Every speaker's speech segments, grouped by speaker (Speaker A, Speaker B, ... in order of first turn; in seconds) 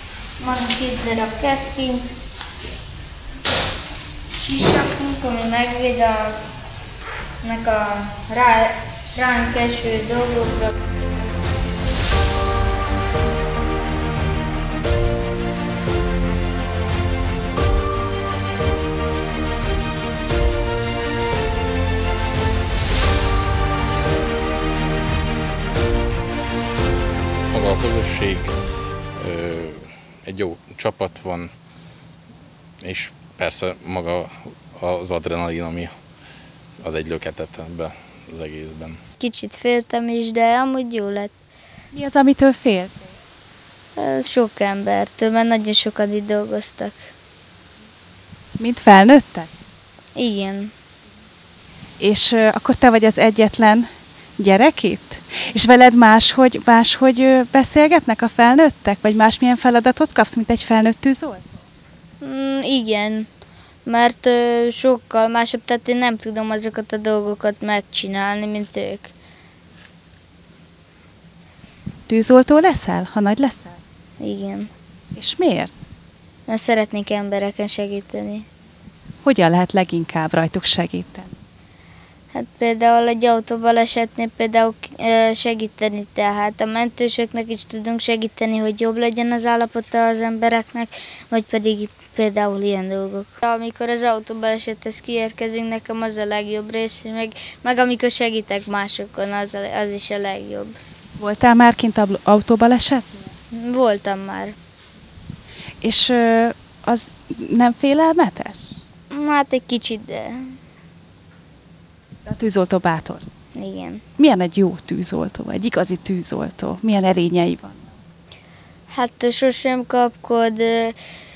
Speaker A: 0.4-2.0, 4.4-6.4, 7.4-10.7, 39.2-41.3, 44.0-46.9, 50.1-50.7, 62.2-63.3, 63.9-69.1, 74.2-74.7, 76.5-78.4, 82.3-100.8, 103.5-104.5, 109.1-110.6, 113.5-114.0, 118.9-121.0
Speaker B: 27.5-28.6, 29.1-31.5, 32.8-35.9, 36.8-39.0
Speaker C: 41.9-43.1, 48.6-49.5, 52.0-61.4, 72.1-73.8, 75.1-75.7, 79.2-81.3, 101.2-103.3, 105.8-108.7, 112.2-113.3, 114.2-117.8